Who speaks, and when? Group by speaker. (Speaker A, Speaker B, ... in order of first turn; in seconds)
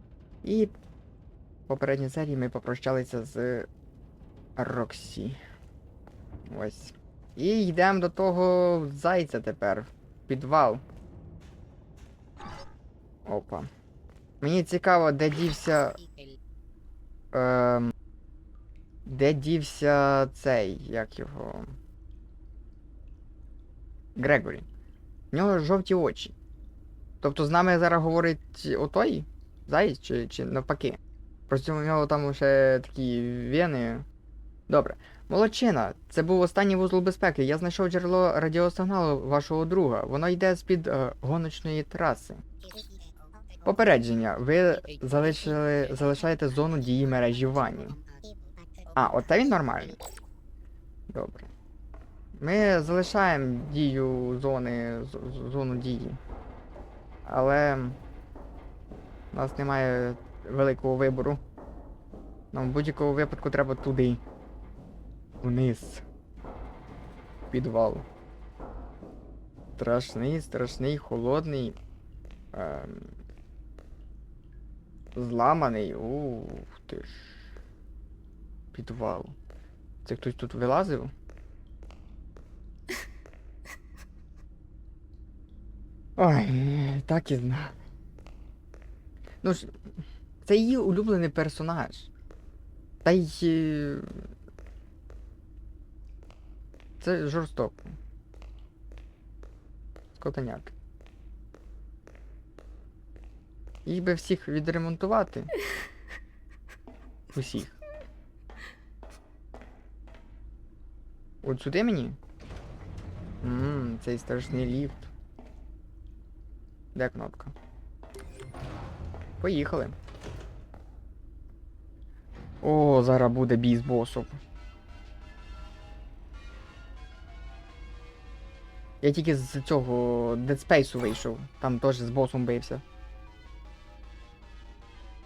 Speaker A: 0.4-0.7, 1.7-3.7, 4.6-5.4, 6.5-10.8, 13.2-13.7, 14.4-16.0, 17.3-17.9, 19.0-21.7, 24.1-24.7, 25.3-26.3, 27.2-34.0, 34.7-42.4, 43.6-48.0, 48.9-50.0, 51.1-51.5, 52.4-56.2, 57.2-58.0, 59.3-61.4, 62.5-64.2, 65.4-66.0, 67.5-68.0, 69.8-71.8, 72.5-73.1, 75.2-77.4, 78.7-79.3, 80.0-81.1, 86.2-87.7, 89.4-89.7, 90.4-92.1, 93.0-94.3, 97.0-98.0, 100.1-100.7, 103.8-105.5, 107.3-107.7, 111.4-112.2, 113.4-115.0, 116.9-117.5, 119.4-119.9, 122.6-124.4, 129.0-132.8